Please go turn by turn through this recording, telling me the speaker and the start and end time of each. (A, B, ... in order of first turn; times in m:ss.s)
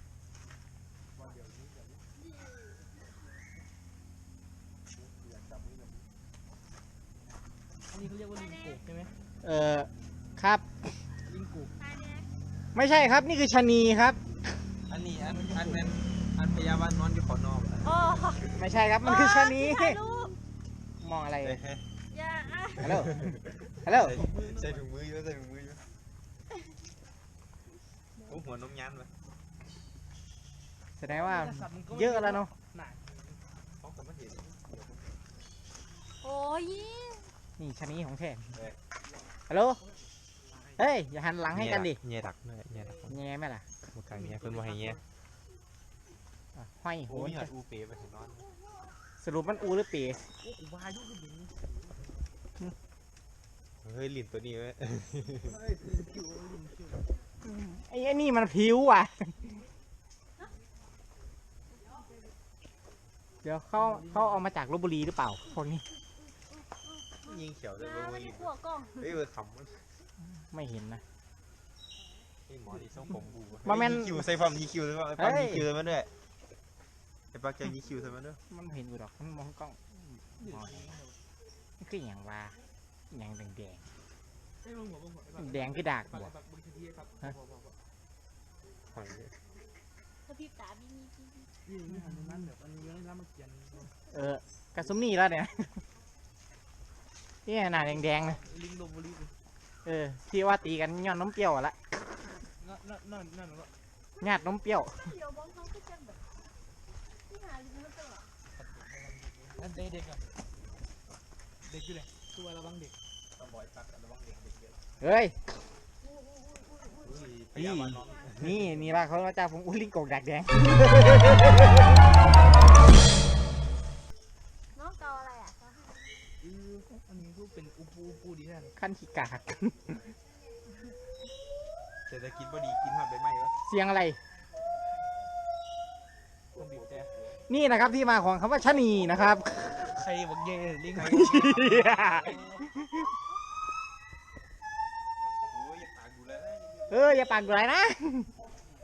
0:01.1-0:02.0 A
0:02.2-0:02.9 B
0:04.9-0:06.1 A
0:07.9-0:09.1 C
0:08.3-0:08.8 B
0:09.4-0:10.7 D
0:11.3-0:11.7 C
0:11.8-0:12.3 B
0:12.8-0:14.2 D
0:14.9-0:18.6 A
0:15.2-0:16.0 C
0:17.8-0:18.5 B
0:18.6-0:20.0 D
0:19.0-0:20.4 B
0:21.0-0:21.6 D
0:21.4-0:21.8 A
0:22.1-0:23.1 B
0:22.8-0:25.8 A
0:22.8-0:24.2 D
0:23.9-0:24.8 C
0:28.2-0:29.1 A
0:31.0-0:32.5 D
0:31.0-0:33.6 C
0:33.8-0:35.2 A
0:36.2-0:37.3 B
0:37.6-0:38.6 D
0:39.5-0:39.8 D
0:39.8-0:40.9 C
0:40.8-0:42.0 D
0:41.5-0:43.2 A
0:43.1-0:43.6 D
0:43.9-0:45.0 A
0:44.1-0:45.0 C
0:46.6-0:47.5 D
0:47.1-0:48.5 A
0:49.2-0:50.3 D
0:50.4-0:52.3 C
0:53.8-0:55.6 A
0:55.4-0:57.1 C
0:57.4-0:59.4 D
1:03.4-1:05.8 D
1:03.8-1:04.5 C
1:06.5-1:09.2 B
1:07.2-1:09.8 A
1:10.5-1:11.0 D
1:12.5-1:16.1 A
1:12.7-1:13.2 C
1:13.6-1:14.3 D
1:15.2-1:15.7 D
1:17.3-1:18.4 A
1:18.5-1:20.9 D
1:20.4-1:21.2 C
1:21.8-1:22.6 D
1:23.1-1:23.8 D
1:24.6-1:27.8 C
1:25.4-1:26.3 D
1:28.9-1:29.3 A
1:30.2-1:31.5 B
1:31.7-1:33.9 C
1:34.1-1:35.8 D
1:37.5-1:38.4 D
1:37.9-1:39.3 C
1:39.8-1:41.8 D
1:42.6-1:43.7 C
1:44.2-1:46.2 B
1:44.2-1:45.1 D
1:47.3-1:48.3 B
1:48.6-1:50.2 C
1:51.6-1:52.9 C
1:53.4-1:54.8 A
1:55.0-1:55.4 D
1:56.1-1:57.2 B
1:57.0-1:58.9 A
1:57.6-2:01.4 D
1:58.1-1:58.3 B
2:04.7-2:06.1 B
2:06.4-2:06.9 A
2:06.9-2:08.7 C
2:08.8-2:10.0 D
2:12.1-2:13.6 A
2:13.7-2:14.2 D
2:16.5-2:17.4 A
2:16.6-2:17.1 C
2:17.5-2:19.8 D
2:19.8-2:22.6 C
2:20.9-2:22.6 A
2:21.0-2:23.0 D
2:25.5-2:27.3 A
2:26.9-2:28.3 D